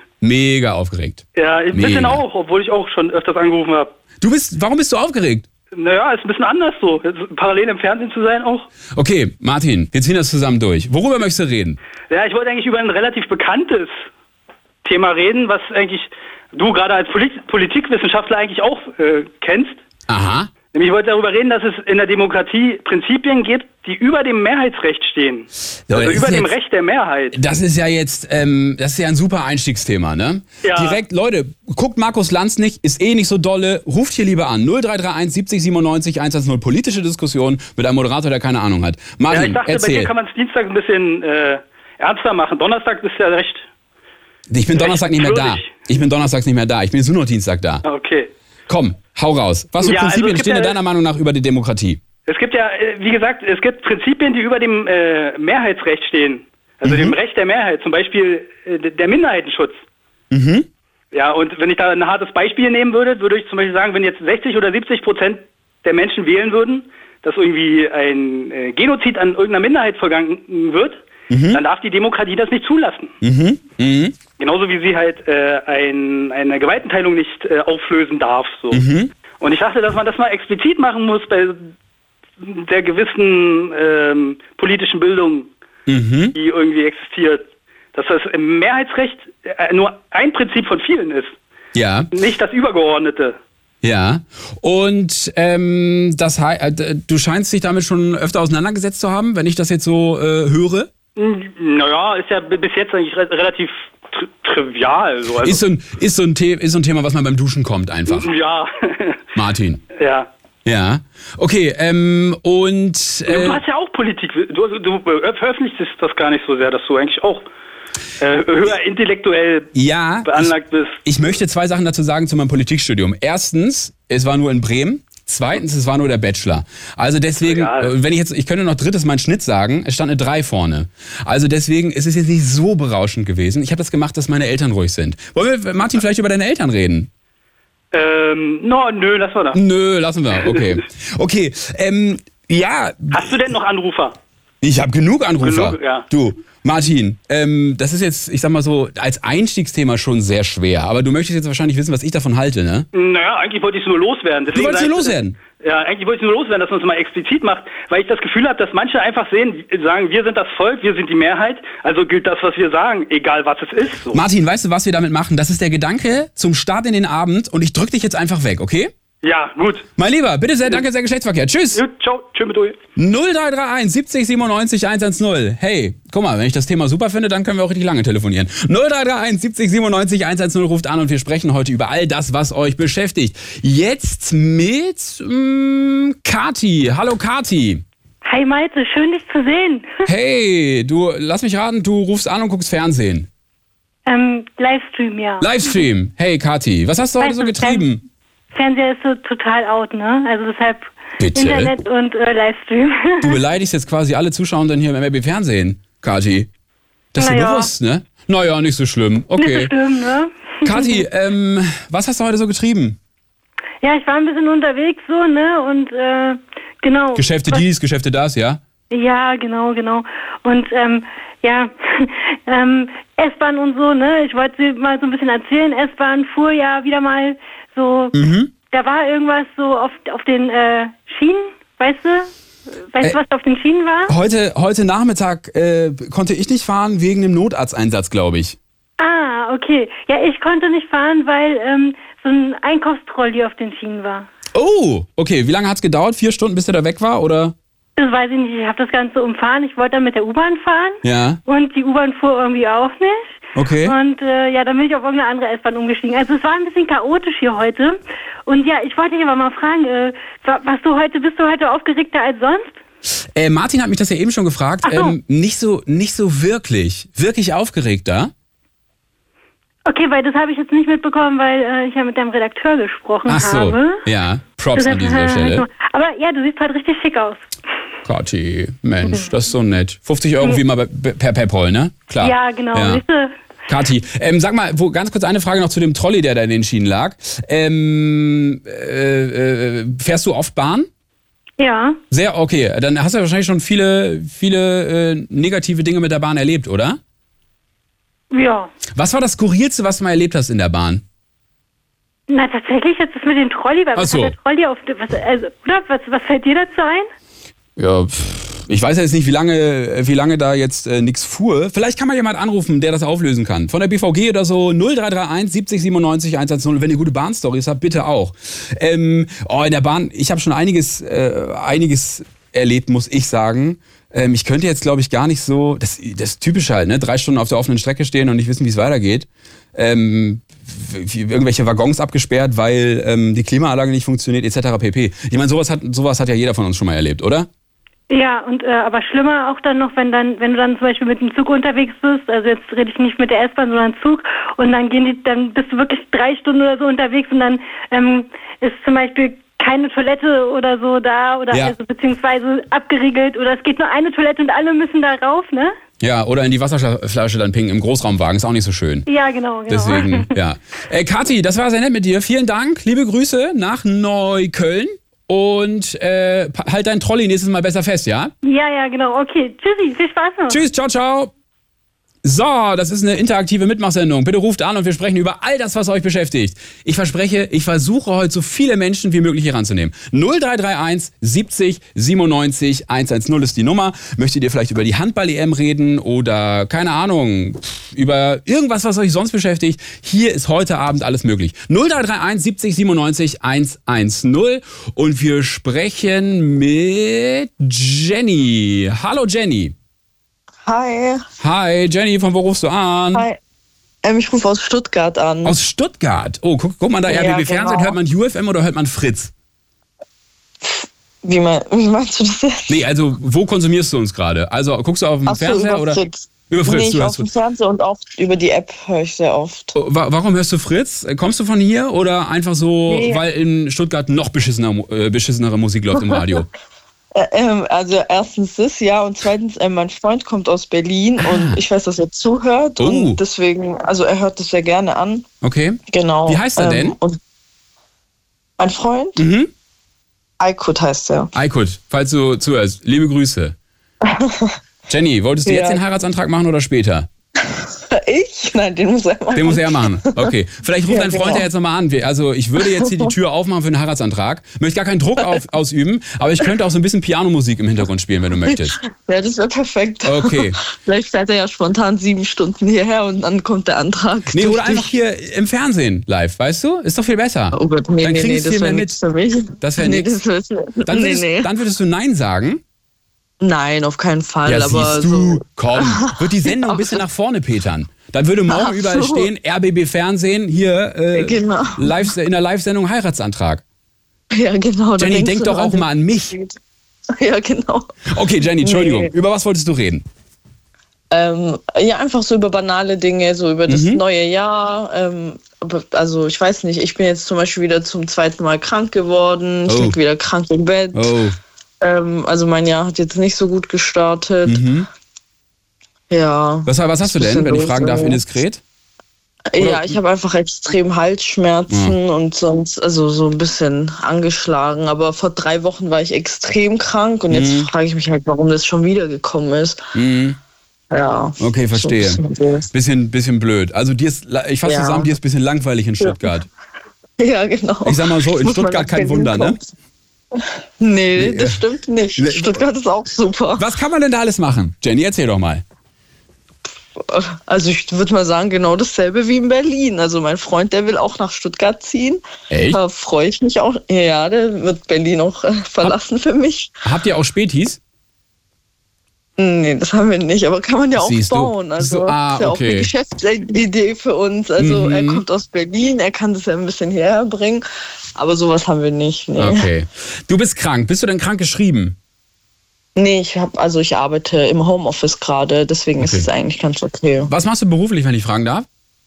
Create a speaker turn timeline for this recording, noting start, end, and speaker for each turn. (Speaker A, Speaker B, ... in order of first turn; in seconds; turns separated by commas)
Speaker A: 0.2-2.2, Speaker B: 1.3-3.9, Speaker A: 4.2-5.5, Speaker B: 5.7-8.7, Speaker A: 8.9-11.8, Speaker B: 12.1-14.0, Speaker B: 14.8-19.8, Speaker A: 20.1-20.5, Speaker B: 20.7-27.4, Speaker A: 25.9-26.5, Speaker A: 27.3-40.1, Speaker B: 30.6-31.0, Speaker B: 39.3-43.6, Speaker A: 44.5-47.8, Speaker B: 44.7-45.8, Speaker B: 47.8-48.3, Speaker A: 48.7-52.0, Speaker B: 49.8-50.8, Speaker B: 52.3-59.8, Speaker A: 56.8-57.1, Speaker A: 60.3-60.7, Speaker B: 61.1-73.1, Speaker A: 71.3-71.6, Speaker A: 73.2-74.2, Speaker B: 74.4-78.8, Speaker A: 78.7-79.1, Speaker B: 79.4-81.7, Speaker B: 82.4-85.5, Speaker A: 85.9-86.3, Speaker B: 86.3-91.4, Speaker A: 91.7-92.1, Speaker B: 92.1-93.4, Speaker A: 93.8-100.9, Speaker B: 101.2-105.6, Speaker A: 105.4-108.3, Speaker B: 108.1-109.2, Speaker A: 109.3-109.8, Speaker B: 109.9-110.3, Speaker A: 110.6-113.6, Speaker B: 113.3-117.5, Speaker B: 118.2-119.7, Speaker A: 119.7-120.5, Speaker B: 120.2-121.0, Speaker A: 121.0-137.1, Speaker B: 127.4-127.9, Speaker B: 137.9-139.6, Speaker A: 139.5-143.3, Speaker B: 143.1-144.2, Speaker A: 144.6-152.9, Speaker B: 145.4-146.1, Speaker B: 152.9-164.2, Speaker A: 154.5-155.4, Speaker A: 164.1-168.9, Speaker B: 169.2-169.9, Speaker A: 170.0-171.8, Speaker B: 171.7-172.8, Speaker A: 172.9-187.8, Speaker C: 188.2-190.0, Speaker A: 190.0-193.3, Speaker C: 194.1-195.7, Speaker A: 195.4-198.0, Speaker C: 197.2-197.8, Speaker C: 198.5-203.4, Speaker A: 201.2-201.7, Speaker A: 203.2-206.5, Speaker A: 207.1-209.7, Speaker C: 207.2-207.7, Speaker C: 209.4-211.0, Speaker A: 210.6-213.0, Speaker C: 213.8-217.6, Speaker A: 217.1-218.6, Speaker C: 218.9-228.1, Speaker A: 228.1-228.5, Speaker C: 228.7-232.3, Speaker C: 232.9-234.1, Speaker A: 234.1-238.6, Speaker C: 239.0-244.3, Speaker A: 244.5-247.5, Speaker C: 248.0-262.7, Speaker A: 251.0-251.4, Speaker A: 253.6-253.9, Speaker A: 263.3-268.3, Speaker C: 264.8-265.1, Speaker C: 269.9-274.0, Speaker A: 273.2-275.7, Speaker C: 274.7-277.5, Speaker A: 278.0-283.0, Speaker C: 282.2-283.3, Speaker A: 283.7-290.9, Speaker C: 291.6-292.0, Speaker A: 292.1-297.0, Speaker C: 298.3-298.7, Speaker A: 298.9-301.0, Speaker C: 302.3-307.1, Speaker A: 303.9-304.3, Speaker A: 307.8-337.5, Speaker C: 338.1-355.7, Speaker A: 356.0-359.1, Speaker C: 359.1-360.3, Speaker A: 359.7-368.3, Speaker C: 368.4-370.6, Speaker A: 370.5-371.3, Speaker A: 372.2-399.7, Speaker D: 400.6-401.2, Speaker A: 401.4-403.2, Speaker D: 404.0-405.6, Speaker A: 405.4-409.3, Speaker D: 407.1-407.9, Speaker D: 410.6-412.8, Speaker A: 412.7-417.3, Speaker D: 415.3-419.7, Speaker A: 419.7-426.5, Speaker D: 422.9-423.2, Speaker D: 427.1-435.2, Speaker A: 431.2-431.6, Speaker A: 432.8-433.2, Speaker A: 435.4-437.0, Speaker D: 435.9-437.2, Speaker D: 438.6-439.2, Speaker A: 439.2-439.5, Speaker D: 440.4-441.3, Speaker A: 441.3-443.5, Speaker D: 444.0-444.5, Speaker A: 444.9-447.1, Speaker D: 445.4-445.8, Speaker D: 447.4-450.3, Speaker A: 449.3-458.8, Speaker D: 450.9-451.4, Speaker D: 452.6-453.1, Speaker D: 458.5-464.9, Speaker A: 460.0-460.6, Speaker A: 464.3-469.0, Speaker D: 467.5-471.5, Speaker A: 469.6-470.1, Speaker A: 470.9-472.6, Speaker D: 473.4-477.0, Speaker A: 474.4-483.6, Speaker D: 478.5-479.3, Speaker D: 481.1-482.1, Speaker D: 484.3-486.5, Speaker A: 485.0-486.4, Speaker D: 487.2-487.9, Speaker A: 488.1-490.0, Speaker D: 488.6-489.1, Speaker D: 491.1-501.1, Speaker A: 493.7-494.0, Speaker A: 499.7-499.9, Speaker A: 500.9-501.4, Speaker D: 501.8-504.6, Speaker A: 504.4-504.9, Speaker D: 506.1-508.2, Speaker A: 506.6-508.6, Speaker D: 509.5-519.8, Speaker A: 509.6-510.0, Speaker A: 511.7-511.9, Speaker A: 517.3-517.7, Speaker A: 519.9-520.4, Speaker D: 520.9-522.7, Speaker A: 521.4-526.5, Speaker D: 524.6-525.1, Speaker D: 527.2-529.6, Speaker A: 527.8-529.6, Speaker D: 530.8-533.6, Speaker A: 531.1-531.6, Speaker A: 532.2-532.6, Speaker A: 533.6-535.6, Speaker D: 537.0-542.2, Speaker A: 542.5-542.8, Speaker D: 542.7-546.7, Speaker A: 546.8-547.8, Speaker D: 549.4-557.6, Speaker A: 551.0-552.9, Speaker A: 554.6-555.2, Speaker D: 558.1-559.7, Speaker A: 559.4-562.0, Speaker D: 563.0-567.3, Speaker A: 566.0-566.3, Speaker A: 567.3-568.6